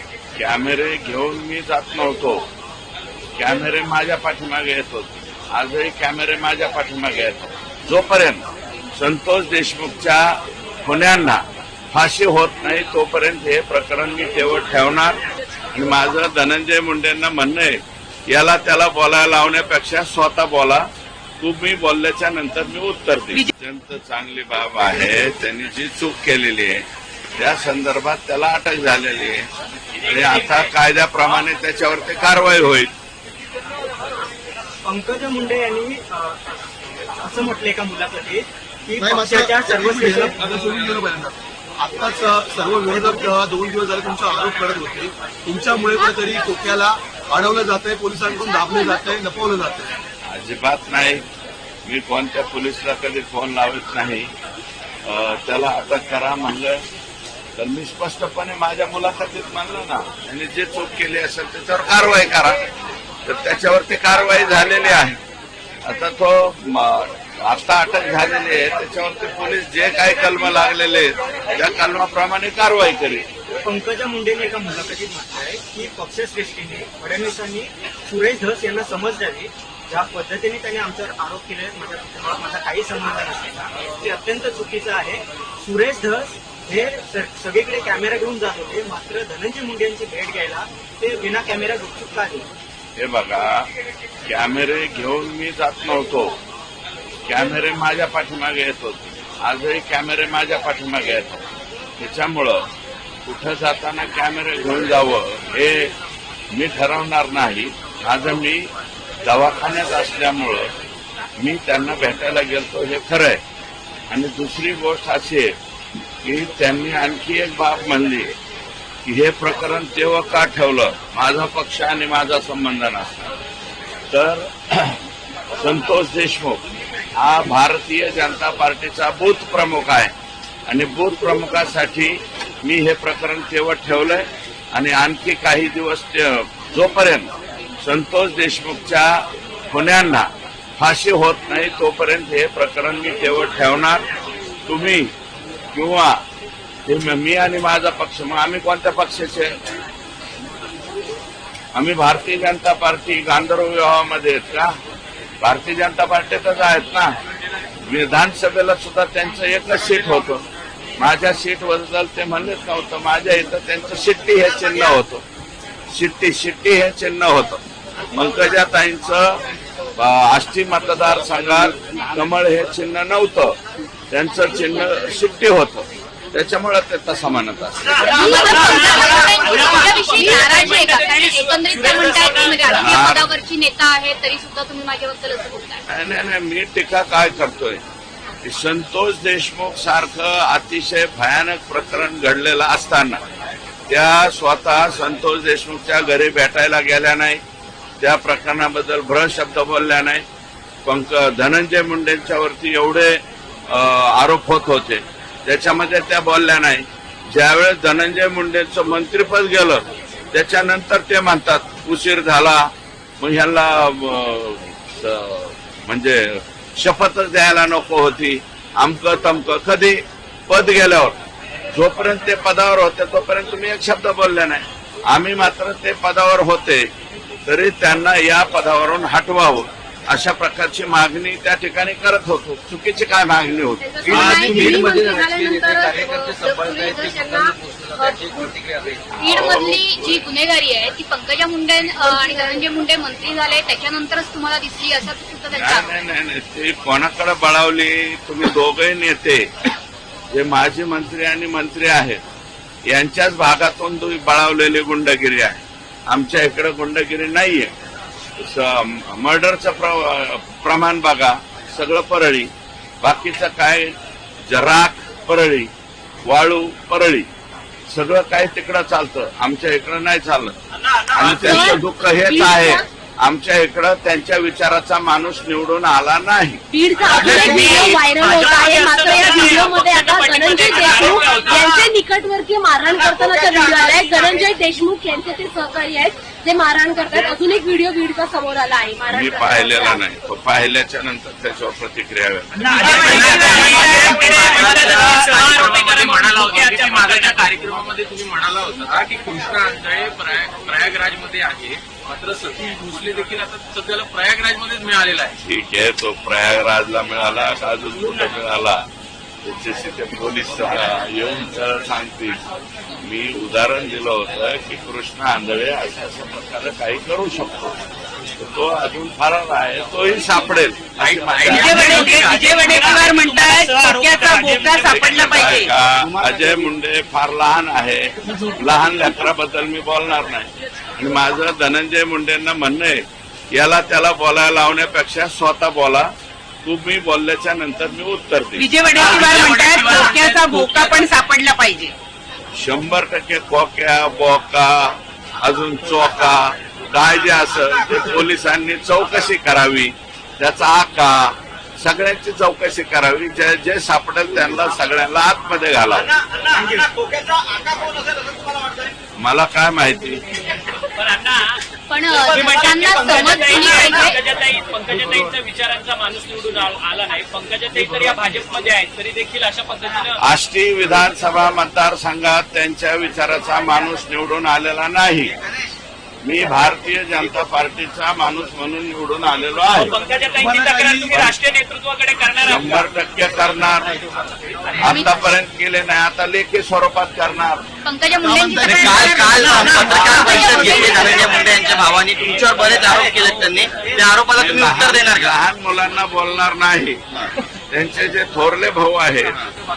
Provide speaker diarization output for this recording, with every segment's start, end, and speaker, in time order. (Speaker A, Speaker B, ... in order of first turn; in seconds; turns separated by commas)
Speaker A: 0.3-2.5, Speaker A: 3.4-15.2, Speaker A: 15.7-20.9, Speaker A: 21.4-26.9, Speaker A: 27.4-32.9, Speaker B: 30.1-30.7, Speaker C: 34.8-36.4, Speaker C: 37.2-40.4, Speaker D: 39.0-49.9, Speaker A: 50.2-51.2, Speaker A: 51.9-54.3, Speaker A: 55.0-56.8, Speaker A: 57.6-62.6, Speaker A: 63.2-65.2, Speaker A: 65.8-73.2, Speaker C: 73.6-92.5, Speaker A: 93.0-93.7, Speaker A: 94.3-96.4, Speaker A: 97.2-101.4, Speaker A: 102.0-102.7, Speaker A: 103.2-105.9, Speaker A: 106.5-108.7, Speaker A: 109.2-110.7, Speaker A: 111.4-113.4, Speaker A: 114.1-115.5, Speaker A: 116.2-118.3, Speaker A: 119.0-123.3, Speaker A: 124.1-125.0, Speaker A: 125.5-126.6, Speaker A: 127.2-130.1, Speaker A: 130.7-144.1, Speaker A: 144.7-145.1, Speaker A: 145.7-146.2, Speaker A: 146.8-149.6, Speaker A: 151.7-154.8, Speaker A: 155.4-157.2, Speaker A: 157.8-160.4, Speaker A: 161.0-165.2, Speaker A: 165.9-169.4, Speaker A: 169.9-173.6, Speaker A: 174.1-178.1, Speaker E: 178.0-179.4, Speaker B: 178.1-178.9, Speaker F: 178.4-185.8, Speaker B: 179.4-182.7, Speaker A: 182.7-183.3, Speaker A: 185.9-187.8, Speaker A: 188.4-193.2, Speaker A: 193.9-197.4, Speaker A: 198.0-200.2, Speaker A: 200.8-221.2, Speaker A: 221.7-226.9, Speaker A: 227.4-234.7, Speaker E: 233.8-237.6, Speaker G: 234.0-239.1, Speaker F: 234.1-234.7, Speaker F: 236.6-236.9, Speaker A: 239.2-240.3, Speaker F: 239.2-245.9, Speaker E: 242.0-242.6, Speaker A: 245.5-249.5, Speaker A: 250.3-252.2, Speaker A: 252.9-257.7, Speaker A: 258.4-265.7, Speaker A: 266.2-267.3, Speaker A: 267.9-270.6, Speaker A: 271.1-276.6, Speaker E: 271.3-272.9, Speaker E: 276.7-290.1, Speaker B: 277.2-281.7, Speaker A: 289.1-292.7, Speaker B: 292.7-297.4, Speaker H: 292.8-295.3, Speaker I: 293.1-293.9, Speaker G: 293.9-295.1, Speaker I: 295.1-305.3, Speaker A: 305.4-308.9, Speaker A: 309.4-312.5, Speaker A: 313.0-322.0, Speaker G: 320.9-323.0, Speaker H: 321.4-325.7, Speaker B: 322.0-324.9, Speaker A: 324.9-336.1, Speaker G: 326.0-326.7, Speaker A: 336.6-338.7, Speaker H: 338.6-341.9, Speaker B: 339.0-339.6, Speaker A: 342.5-356.1, Speaker C: 356.5-357.2, Speaker A: 359.2-360.4, Speaker B: 360.9-361.6, Speaker F: 361.9-364.2, Speaker B: 362.4-370.1, Speaker A: 370.2-375.3, Speaker A: 376.2-379.9, Speaker B: 379.8-382.8, Speaker D: 380.4-381.3, Speaker A: 382.4-384.0, Speaker A: 384.8-387.7, Speaker F: 384.8-385.2, Speaker F: 387.8-389.4, Speaker D: 388.2-391.3, Speaker G: 388.6-395.4, Speaker A: 389.7-390.6, Speaker F: 390.1-391.3, Speaker C: 392.4-394.0, Speaker A: 394.3-397.0, Speaker A: 397.7-399.4